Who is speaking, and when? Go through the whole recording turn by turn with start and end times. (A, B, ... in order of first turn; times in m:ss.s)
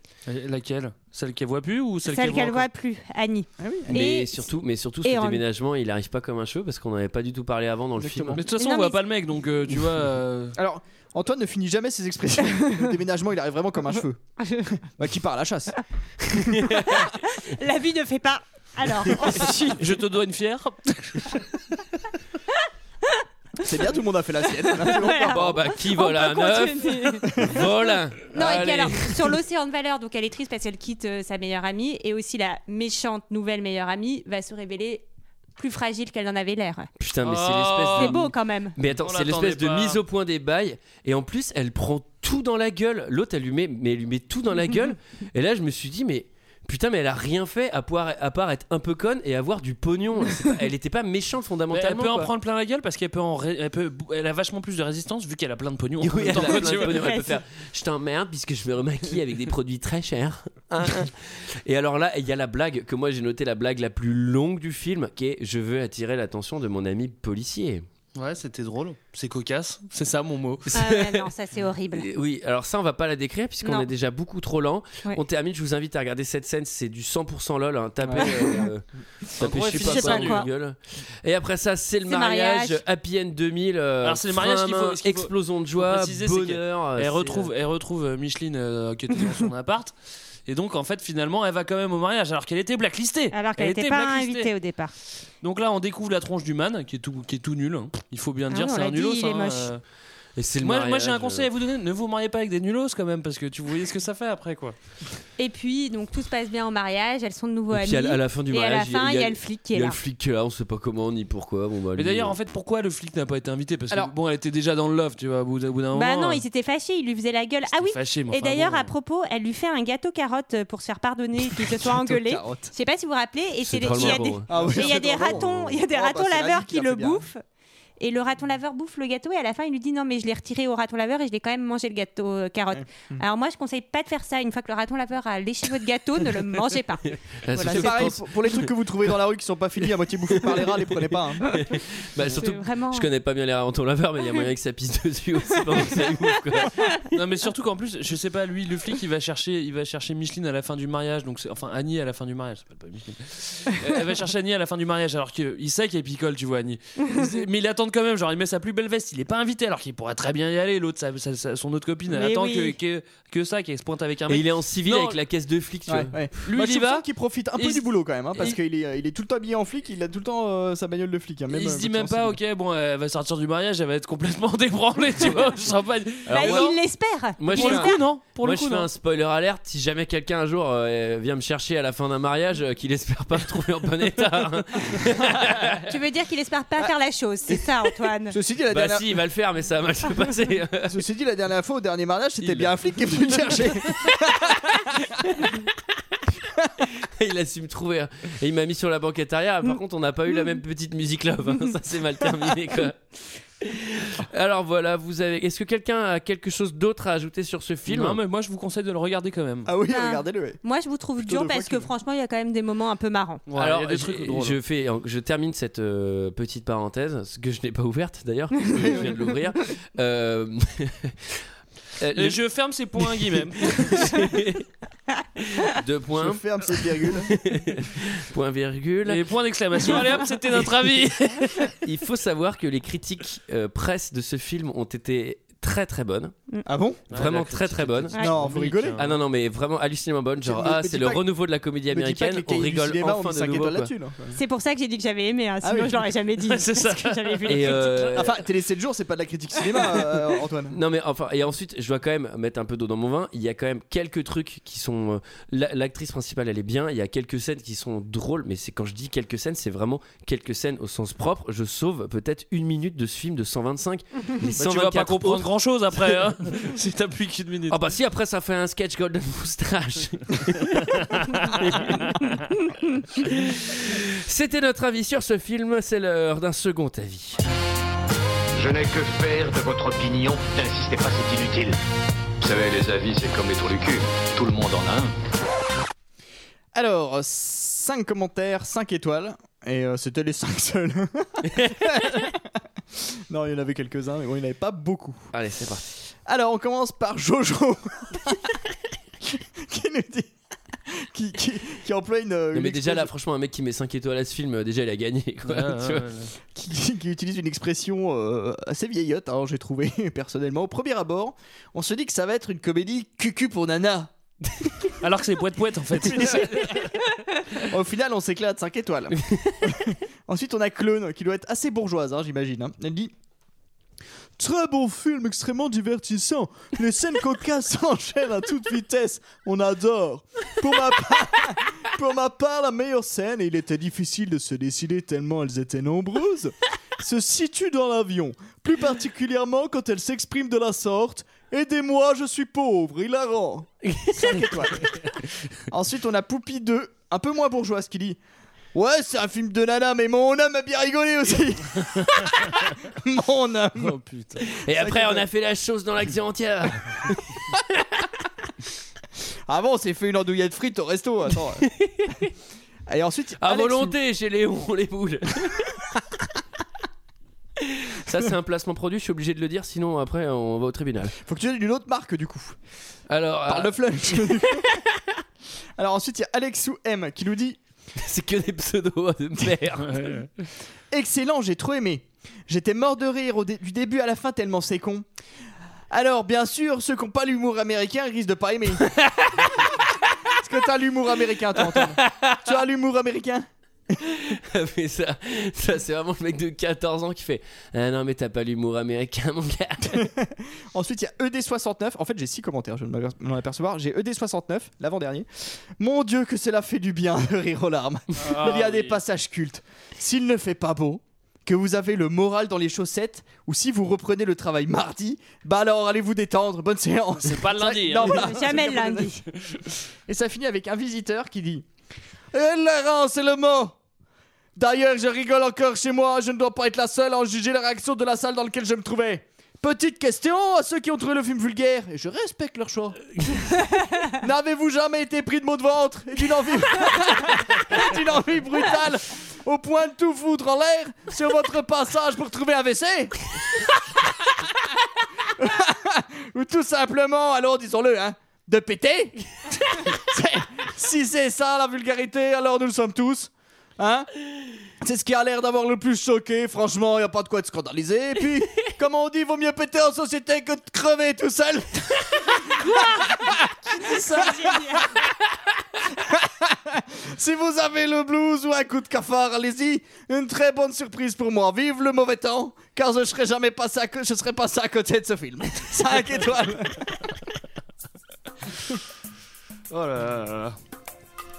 0:00.3-0:02.7 A
0:02.0-0:04.5 B
0:03.6-0:04.0 C
0:03.9-0:08.4 D
0:05.0-0:05.4 B
0:08.0-0:08.4 C
0:08.3-0:10.6 A
0:08.6-0:09.0 B
0:10.6-0:14.3 C
0:14.4-0:14.8 B
0:14.8-0:15.8 C
0:16.5-0:17.0 D
0:16.9-0:19.8 B
0:19.8-0:21.5 A
0:23.6-0:25.7 C
0:24.7-0:27.5 B
0:25.3-0:29.2 D
0:28.3-0:36.9 B
0:37.0-0:52.3 D
0:37.2-0:38.2 A
0:37.9-0:38.8 B
0:38.9-0:40.0 A
0:51.7-0:57.1 A
0:56.0-1:07.8 D
0:56.5-0:57.3 B
1:08.1-1:10.7 A
1:10.7-1:12.1 B
1:10.7-1:11.3 D
1:11.9-1:18.8 D
1:13.6-1:13.9 B
1:19.4-1:27.5 D
1:19.4-1:20.5 A
1:19.7-1:20.5 B
1:22.0-1:22.8 B
1:24.0-1:29.9 A
1:30.5-1:34.5 A
1:33.3-1:34.9 B
1:35.4-1:39.8 A
1:38.5-1:39.7 B
1:40.4-1:41.5 D
1:40.6-1:44.8 A
1:45.4-1:50.0 B
1:47.7-1:52.3 D
1:52.0-1:56.4 A
1:55.9-2:07.4 B
1:57.8-1:58.9 A
2:01.4-2:02.7 C
2:03.6-2:05.7 D
2:04.5-2:07.2 C
2:08.0-2:18.1 B
2:12.8-2:13.2 C
2:17.4-2:18.7 D
2:17.6-2:21.5 C
2:20.3-2:27.0 D
2:22.3-2:23.1 B
2:27.1-2:45.2 A
2:42.1-2:42.8 B
2:44.3-2:46.3 D
2:45.9-2:52.4 C
2:46.5-2:47.0 A
2:47.6-2:48.6 A
2:51.5-2:56.7 A
2:56.2-2:56.8 D
2:56.3-2:58.0 B
2:57.4-3:05.8 D
2:57.5-2:58.9 A
3:05.9-3:08.4 B
3:08.3-3:09.2 C
3:08.7-3:11.0 D
3:10.9-3:15.0 C
3:12.4-3:13.6 A
3:14.9-3:15.5 D
3:17.0-3:23.0 D
3:23.6-3:28.2 D
3:27.9-3:29.7 A
3:29.6-3:30.6 C
3:29.9-3:33.4 B
3:31.2-3:31.9 C
3:33.5-3:34.6 A
3:33.6-3:41.3 D
3:42.0-3:42.4 D
3:42.2-3:44.2 A
3:43.2-3:44.6 D
3:45.4-3:49.2 D
3:46.2-3:47.4 C
3:49.0-3:51.7 A
3:51.8-3:56.4 D
3:56.6-3:57.0 C
3:57.1-3:59.1 A
3:57.1-3:58.3 D
3:58.2-3:59.0 C
3:59.0-4:03.9 D
4:00.4-4:01.3 C
4:01.9-4:04.4 C
4:04.3-4:07.9 B
4:05.6-4:06.1 C
4:06.4-4:08.3 A
4:07.5-4:08.3 D
4:08.2-4:10.8 C
4:10.7-4:26.2 D
4:24.4-4:27.8 A
4:27.7-4:32.3 D
4:31.2-4:32.2 A
4:33.2-4:37.4 D
4:38.5-4:41.8 E
4:42.4-4:45.1 E
4:46.7-4:55.3 C
4:51.5-4:52.2 D
4:55.3-4:55.8 D
4:56.2-4:58.6 C
4:59.2-5:00.3 C
5:00.9-5:03.1 C
5:02.5-5:06.1 D
5:05.4-5:06.3 A
5:06.5-5:14.1 C
5:15.0-5:16.9 A
5:16.0-5:16.8 C
5:17.6-5:23.1 C
5:24.4-5:45.0 C
5:43.9-5:44.6 D
5:45.7-5:48.2 C
5:48.7-5:54.0 C
5:53.8-5:54.4 A
5:54.4-5:58.1 D
5:54.6-5:55.2 C
5:59.5-6:01.6 C
6:01.7-6:02.3 D
6:02.9-6:03.9 C
6:03.4-6:05.8 D
6:07.6-6:11.1 D
6:11.2-6:12.6 C
6:13.1-6:14.8 D
6:13.5-6:14.7 C
6:15.8-6:17.6 C
6:18.0-6:20.3 D
6:20.9-6:25.1 C
6:25.9-6:28.9 C
6:28.9-6:29.7 D
6:30.3-6:34.0 C
6:31.7-6:32.4 D
6:34.1-6:40.1 D
6:39.9-6:59.2 C
6:48.2-6:49.0 A
6:57.2-6:58.3 A
6:58.0-6:59.2 B
7:00.1-7:01.6 C
7:02.3-7:03.8 C
7:04.6-7:13.0 C
7:14.1-7:23.1 C
7:25.3-7:34.1 C
7:34.8-7:44.8 C
7:42.6-7:43.1 B
7:43.7-7:44.9 B
7:45.9-7:57.0 C
7:59.7-8:00.5 A